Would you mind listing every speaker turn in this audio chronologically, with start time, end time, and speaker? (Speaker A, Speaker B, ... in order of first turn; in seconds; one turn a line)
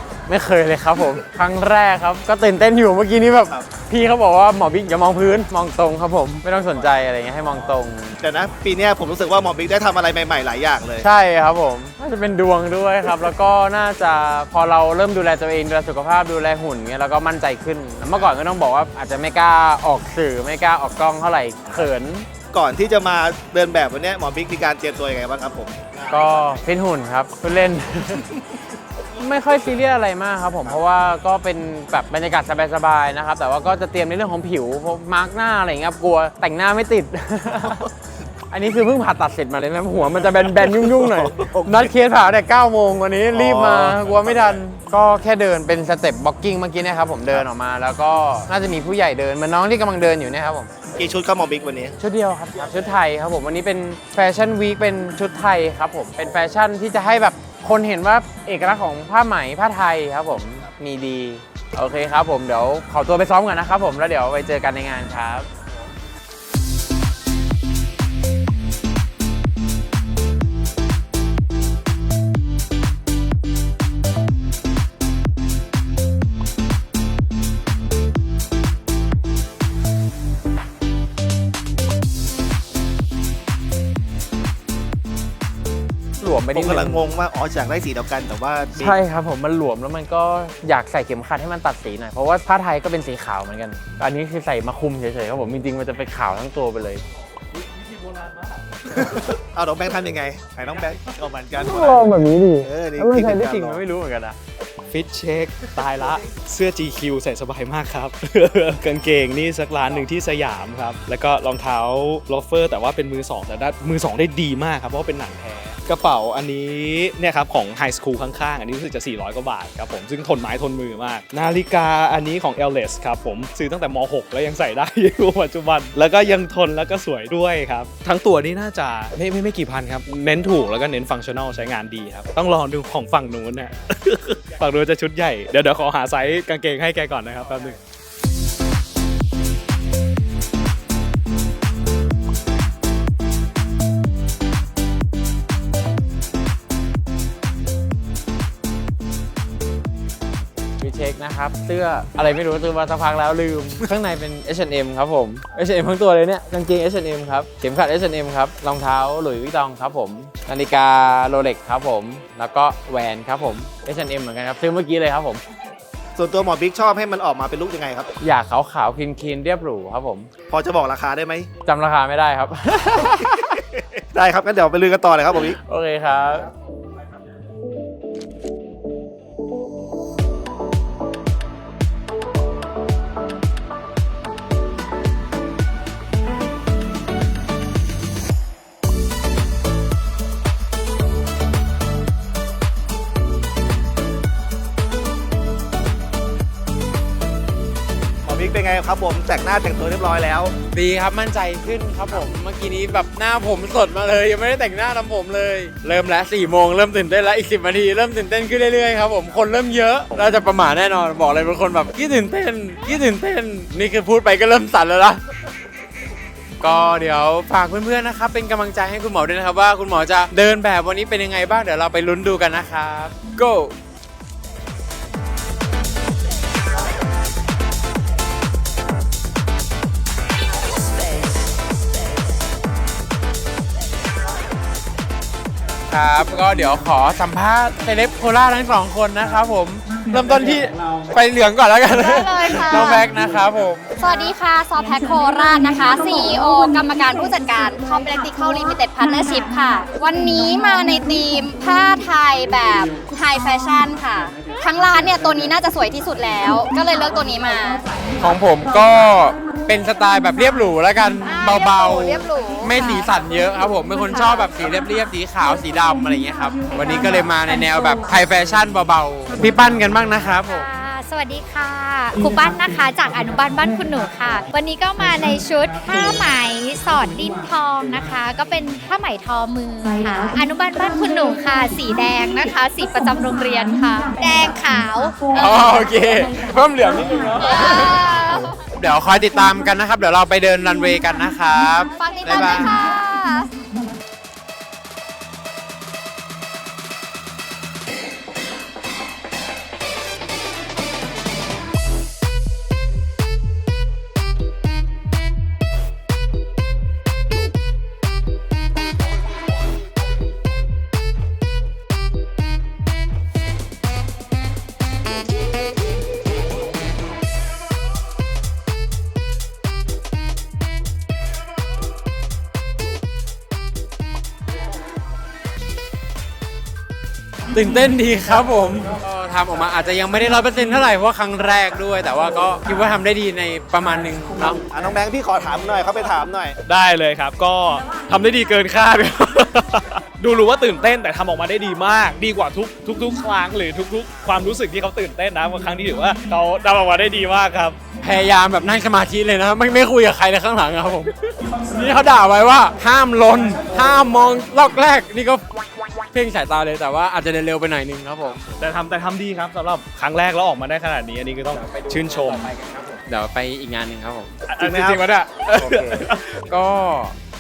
Speaker A: 0.3-8.2
Speaker B: 8.2-11.1
Speaker A: 11.0-22.3
Speaker B: 22.5-26.2
Speaker A: 26.1-28.3
Speaker A: 29.1-37.9
Speaker A: 38.5-50.7
Speaker B: 40.2-41.9
Speaker B: 43.3-44.6
Speaker B: 51.0-52.0
Speaker A: 52.0-65.5
Speaker A: 86.2-87.1
Speaker B: 86.5-89.0
Speaker A: 88.8-97.0
Speaker C: 97.8-98.6
Speaker B: 98.9-103.8
Speaker A: 101.6-104.4
Speaker C: 104.9-137.8
Speaker A: 150.8-165.4
Speaker B: 166.2-168.1
Speaker A: 168.2-170.3
Speaker B: 170.5-171.5
Speaker A: 171.7-173.6
Speaker B: 173.5-175.6
Speaker A: 175.5-176.5
Speaker B: 198.3-200.5
Speaker A: 200.7-215.2
Speaker A: 216.6-223.8
Speaker A: 235.9-243.9
Speaker D: 242.0-243.0
Speaker D: 244.0-257.8
Speaker A: 258.2-270.7
Speaker D: 261.3-262.7
Speaker E: 270.4-285.5
Speaker A: 285.3-288.1
Speaker D: 287.5-288.2
Speaker A: 288.8-292.8
Speaker D: 292.0-293.5
Speaker A: 327.5-334.6
Speaker B: 334.7-336.6
Speaker C: 336.6-347.8
Speaker A: 348.0-355.4
Speaker A: 356.1-358.5
Speaker C: 358.6-362.5
Speaker A: 361.6-364.3
Speaker C: 364.5-366.3
Speaker B: 364.6-365.0
Speaker A: 365.6-367.2